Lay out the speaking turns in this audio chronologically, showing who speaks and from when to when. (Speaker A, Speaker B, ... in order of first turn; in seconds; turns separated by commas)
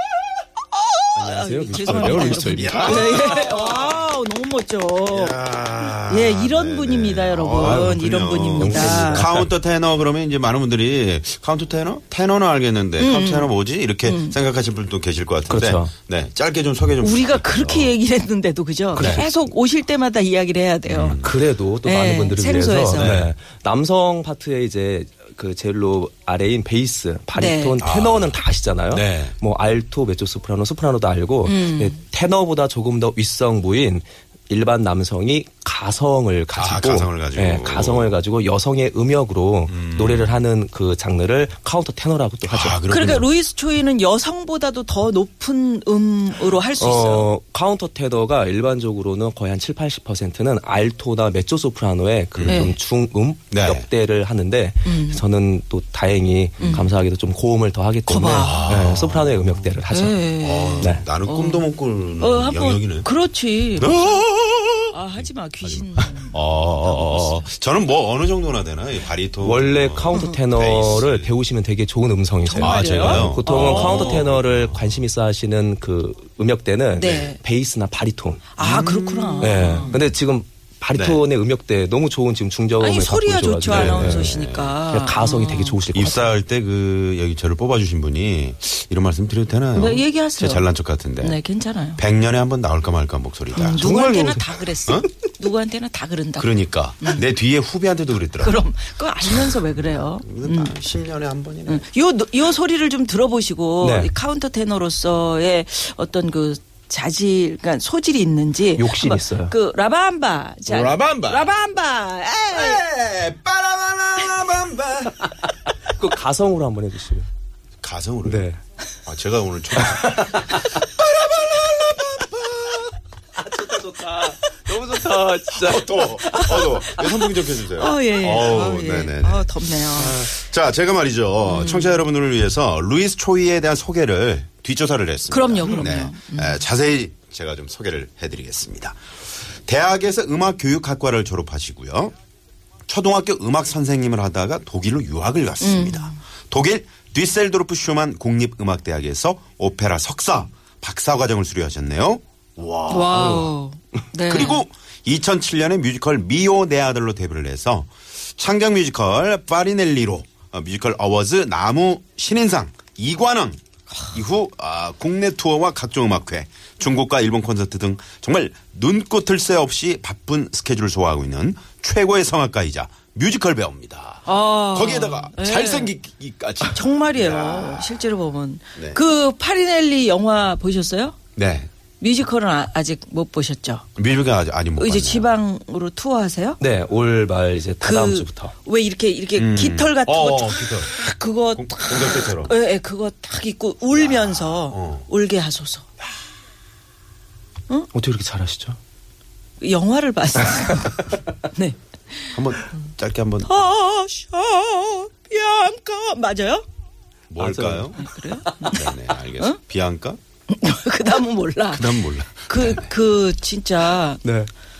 Speaker A: 0.7-5.4, Speaker B: 1.1-3.3, Speaker C: 1.9-3.8, Speaker C: 5.1-17.9, Speaker A: 6.0-9.3, Speaker B: 7.6-7.9, Speaker B: 8.6-9.5, Speaker A: 13.0-14.4, Speaker B: 15.5-15.9, Speaker A: 17.0-21.3, Speaker B: 18.9-19.4, Speaker C: 18.9-19.3, Speaker C: 20.9-21.4, Speaker B: 21.1-42.8, Speaker A: 21.8-23.1, Speaker C: 22.9-23.3, Speaker A: 27.3-27.8, Speaker C: 27.8-28.4, Speaker C: 28.9-29.4, Speaker A: 31.4-32.0, Speaker C: 36.5-38.2, Speaker C: 39.7-40.5, Speaker C: 42.4-43.3, Speaker A: 42.9-47.3, Speaker B: 46.8-60.2, Speaker C: 52.4-52.7, Speaker A: 52.5-52.8, Speaker C: 53.5-53.9, Speaker A: 54.8-55.2, Speaker C: 56.6-56.9, Speaker A: 56.6-56.9, Speaker A: 58.1-58.8, Speaker C: 58.3-59.8, Speaker A: 59.9-61.7, Speaker C: 60.4-63.1, Speaker B: 60.8-61.0, Speaker A: 62.2-64.2, Speaker C: 63.8-71.4, Speaker A: 64.9-67.5, Speaker B: 69.4-78.6, Speaker A: 70.1-70.4, Speaker A: 72.5-74.3, Speaker C: 72.6-75.0, Speaker A: 77.0-77.4, Speaker A: 78.5-80.0, Speaker C: 78.6-80.0, Speaker B: 79.4-84.3, Speaker C: 80.9-81.2, Speaker A: 82.8-85.8, Speaker C: 83.6-84.8, Speaker B: 84.9-86.3, Speaker C: 85.9-91.4, Speaker A: 89.8-92.0, Speaker C: 92.0-93.9, Speaker A: 93.5-97.2, Speaker B: 93.7-94.6, Speaker C: 96.4-98.7, Speaker A: 98.4-100.8, Speaker C: 100.2-101.8, Speaker A: 101.7-112.8, Speaker B: 103.8-104.1, Speaker B: 108.8-109.5, Speaker C: 110.7-111.5, Speaker C: 112.5-115.3, Speaker B: 115.8-117.3, Speaker C: 117.8-118.5, Speaker B: 118.2-118.6, Speaker C: 119.0-122.9, Speaker B: 119.8-120.6, Speaker B: 123.4-127.0, Speaker C: 125.5-139.0, Speaker A: 126.5-130.2, Speaker A: 131.4-132.0, Speaker A: 135.3-136.6, Speaker C: 139.7-142.1, Speaker C: 142.9-153.5, Speaker A: 145.6-146.2, Speaker A: 152.9-154.6, Speaker C: 154.3-178.0, Speaker A: 174.2-175.9, Speaker A: 176.7-181.2, Speaker C: 181.4-181.7, Speaker A: 182.0-183.8, Speaker C: 184.0-185.4, Speaker A: 184.8-186.6, Speaker B: 186.6-188.5, Speaker A: 187.8-195.9, Speaker C: 189.4-191.0, Speaker C: 191.5-192.5, Speaker C: 193.9-195.1, Speaker B: 197.9-198.8, Speaker A: 199.6-202.4, Speaker C: 202.3-203.6, Speaker A: 203.4-206.6, Speaker C: 207.3-208.1, Speaker B: 207.4-208.8, Speaker A: 208.0-209.6, Speaker C: 208.7-210.2, Speaker A: 210.5-214.2, Speaker C: 211.7-212.9